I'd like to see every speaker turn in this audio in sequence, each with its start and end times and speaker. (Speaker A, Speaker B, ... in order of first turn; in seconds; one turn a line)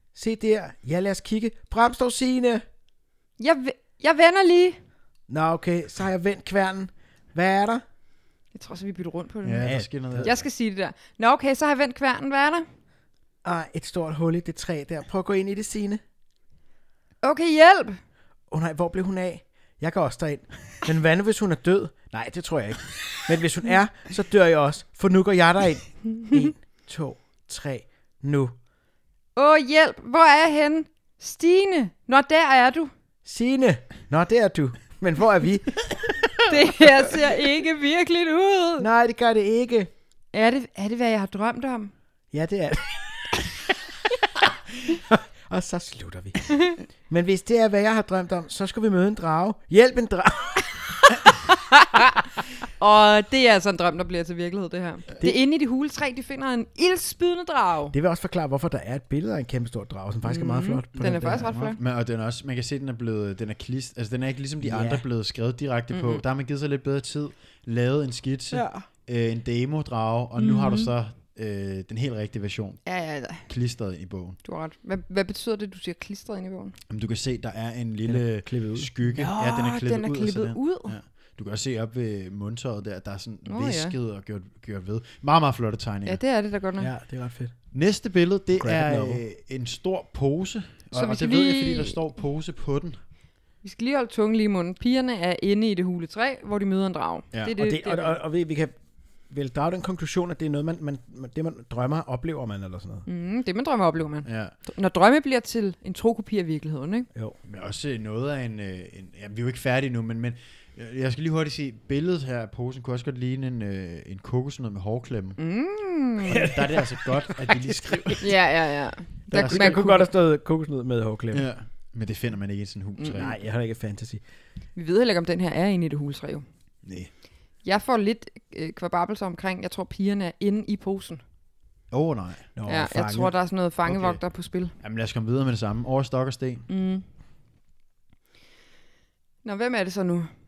Speaker A: 0.1-2.6
Speaker B: 3.4-4.8
Speaker A: 5.3-7.8
Speaker B: 8.5-12.7
Speaker C: 9.4-10.4
Speaker A: 9.6-10.3
Speaker A: 13.4-16.0
Speaker B: 17.2-18.0
Speaker A: 18.5-28.5
Speaker B: 29.4-32.9
Speaker A: 33.2-36.5
Speaker B: 36.5-38.9
Speaker A: 38.8-39.9
Speaker B: 40.3-41.9
Speaker A: 42.3-43.5
Speaker A: 44.9-46.5
Speaker A: 47.1-50.7
Speaker B: 51.1-57.9
Speaker A: 57.9-61.5
Speaker B: 60.2-61.8
Speaker C: 61.0-74.4
Speaker A: 64.6-65.0
Speaker B: 65.9-66.2
Speaker B: 68.5-68.8
Speaker B: 70.4-70.9
Speaker B: 72.8-73.5
Speaker B: 74.4-76.8
Speaker C: 76.9-86.2
Speaker A: 78.0-78.9
Speaker B: 79.1-81.0
Speaker B: 83.5-83.9
Speaker B: 86.0-86.9
Speaker A: 86.8-87.5
Speaker C: 87.7-93.0
Speaker A: 88.5-89.2
Speaker B: 90.9-92.0
Speaker B: 93.6-98.2
Speaker A: 97.6-98.8
Speaker A: 99.3-103.0
Speaker B: 103.0-107.1
Speaker C: 104.2-104.5
Speaker C: 107.4-115.4
Speaker B: 115.4-116.5
Speaker A: 116.3-118.2
Speaker C: 116.3-118.3
Speaker B: 118.2-120.1
Speaker A: 119.3-121.4
Speaker C: 119.3-119.8
Speaker C: 121.3-123.3
Speaker B: 123.0-123.2
Speaker A: 123.2-124.2
Speaker B: 124.7-126.5
Speaker C: 126.8-127.1
Speaker B: 127.6-131.2
Speaker C: 131.9-132.5
Speaker A: 132.5-133.3
Speaker B: 132.7-134.7
Speaker C: 133.8-134.2
Speaker C: 134.8-136.7
Speaker B: 136.7-137.0
Speaker B: 139.4-140.3